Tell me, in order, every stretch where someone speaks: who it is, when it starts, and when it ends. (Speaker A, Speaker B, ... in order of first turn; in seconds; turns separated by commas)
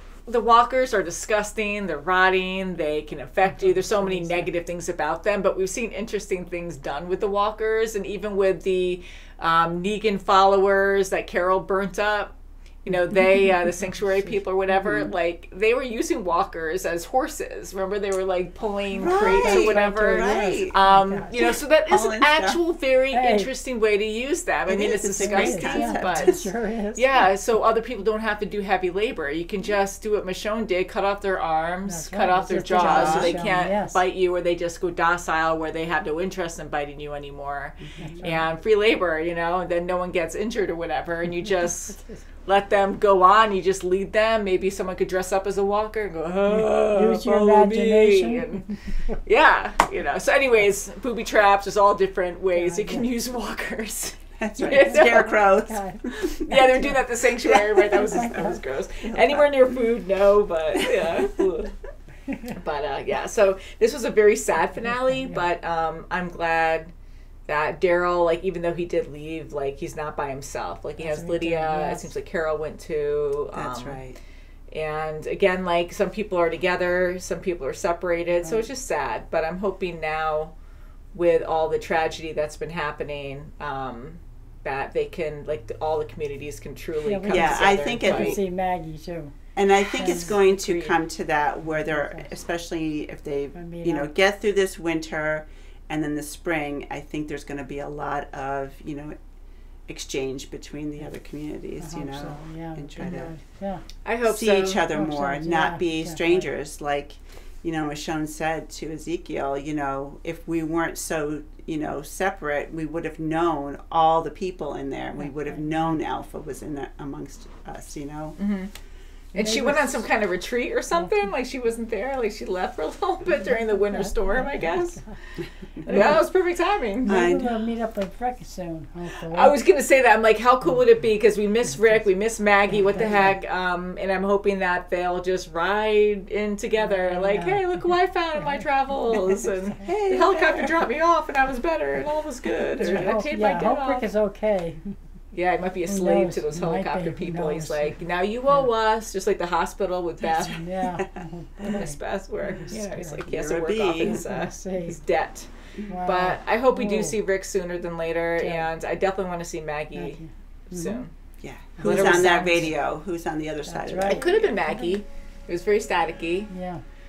Speaker A: 0.3-12.3, Speaker B: 3.6-4.5, Speaker A: 12.9-26.4, Speaker B: 13.8-14.4, Speaker C: 19.0-20.8, Speaker B: 19.0-21.4, Speaker C: 21.3-22.6, Speaker B: 23.1-23.5, Speaker C: 24.7-26.5, Speaker B: 25.2-27.2, Speaker A: 26.9-48.7, Speaker B: 31.9-34.0, Speaker C: 32.7-33.5, Speaker C: 37.8-38.1, Speaker B: 38.0-38.5, Speaker B: 41.9-42.2, Speaker B: 46.5-49.1, Speaker A: 49.2-55.4, Speaker B: 52.5-53.1, Speaker C: 54.4-56.6, Speaker B: 54.7-57.0, Speaker A: 56.5-61.8, Speaker C: 57.4-58.2, Speaker B: 58.0-58.6, Speaker C: 59.0-59.6, Speaker C: 60.9-61.2, Speaker A: 62.5-66.9, Speaker B: 64.9-65.4, Speaker A: 67.5-74.0, Speaker B: 71.0-72.1, Speaker C: 73.5-74.2, Speaker A: 74.7-80.5, Speaker B: 78.4-78.7, Speaker A: 81.1-88.4, Speaker B: 87.0-89.3, Speaker C: 87.3-88.4, Speaker C: 89.6-99.2, Speaker B: 90.0-90.3, Speaker A: 90.0-91.0, Speaker B: 91.7-92.3, Speaker B: 93.5-94.1, Speaker C: 99.9-103.3, Speaker B: 101.8-103.8, Speaker A: 104.0-104.8, Speaker C: 104.2-118.4, Speaker B: 104.9-106.5, Speaker B: 115.2-116.0, Speaker A: 118.4-118.7, Speaker A: 119.3-125.2, Speaker B: 119.3-120.0, Speaker B: 123.4-125.2, Speaker C: 125.8-126.2, Speaker A: 125.9-127.2, Speaker B: 127.0-129.6, Speaker C: 127.0-127.5, Speaker A: 129.3-144.0, Speaker B: 132.7-133.4, Speaker B: 136.8-137.6, Speaker C: 139.8-140.7, Speaker B: 142.8-144.9, Speaker A: 145.3-150.6, Speaker B: 145.9-148.7, Speaker B: 150.4-153.3, Speaker A: 151.6-161.1, Speaker C: 153.2-154.2, Speaker B: 154.0-155.0, Speaker B: 155.9-157.2, Speaker B: 158.4-158.7, Speaker B: 160.0-161.0, Speaker C: 161.4-164.3, Speaker B: 161.8-162.7, Speaker A: 161.8-162.7, Speaker B: 163.7-165.0, Speaker A: 164.1-166.5, Speaker B: 166.5-166.8